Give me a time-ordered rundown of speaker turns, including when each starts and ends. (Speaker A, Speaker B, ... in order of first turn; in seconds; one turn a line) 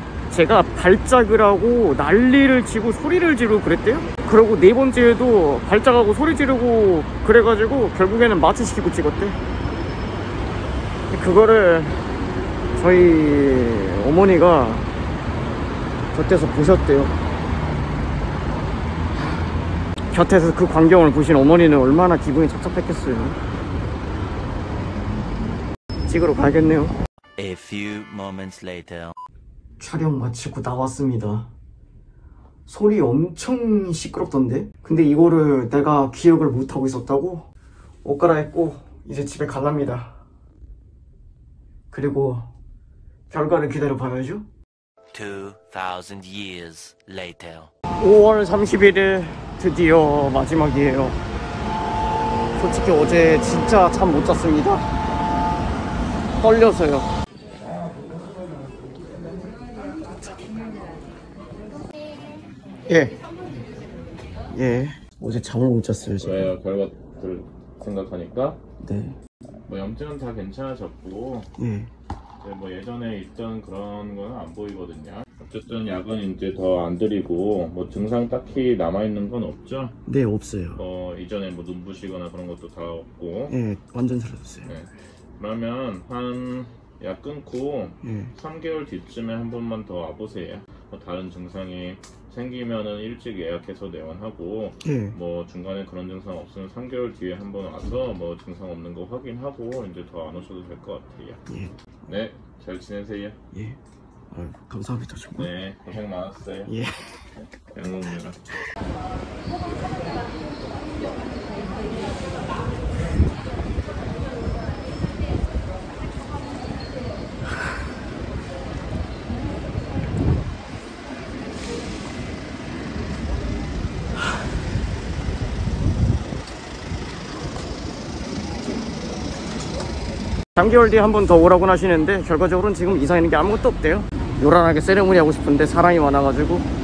Speaker A: 0.3-9.4
Speaker A: 11.1-12.0
Speaker A: 12.7-14.9
Speaker A: 16.1-17.1
Speaker A: 20.1-23.4
Speaker A: 26.1-26.9
Speaker B: 27.4-29.1
Speaker A: 29.8-31.5
Speaker A: 32.7-37.5
Speaker A: 38.0-40.1
Speaker A: 41.9-42.5
Speaker A: 43.3-44.5
Speaker B: 45.1-47.7
Speaker A: 48.0-51.2
Speaker A: 52.5-54.9
Speaker A: 56.4-57.1
Speaker A: 62.9-63.1
Speaker A: 64.5-66.5
Speaker C: 66.2-68.6
Speaker A: 68.8-69.2
Speaker C: 69.6-71.5
Speaker A: 71.6-71.9
Speaker C: 72.4-80.0
Speaker A: 80.0-80.8
Speaker C: 80.8-83.5
Speaker A: 83.5-84.7
Speaker C: 84.7-101.4
Speaker A: 88.0-88.3
Speaker A: 94.8-95.2
Speaker A: 101.5-101.7
Speaker C: 102.0-103.4
Speaker A: 103.5-103.8
Speaker A: 104.3-105.5
Speaker C: 105.4-106.7
Speaker A: 106.7-107.2
Speaker C: 107.6-108.4
Speaker A: 130.5-136.7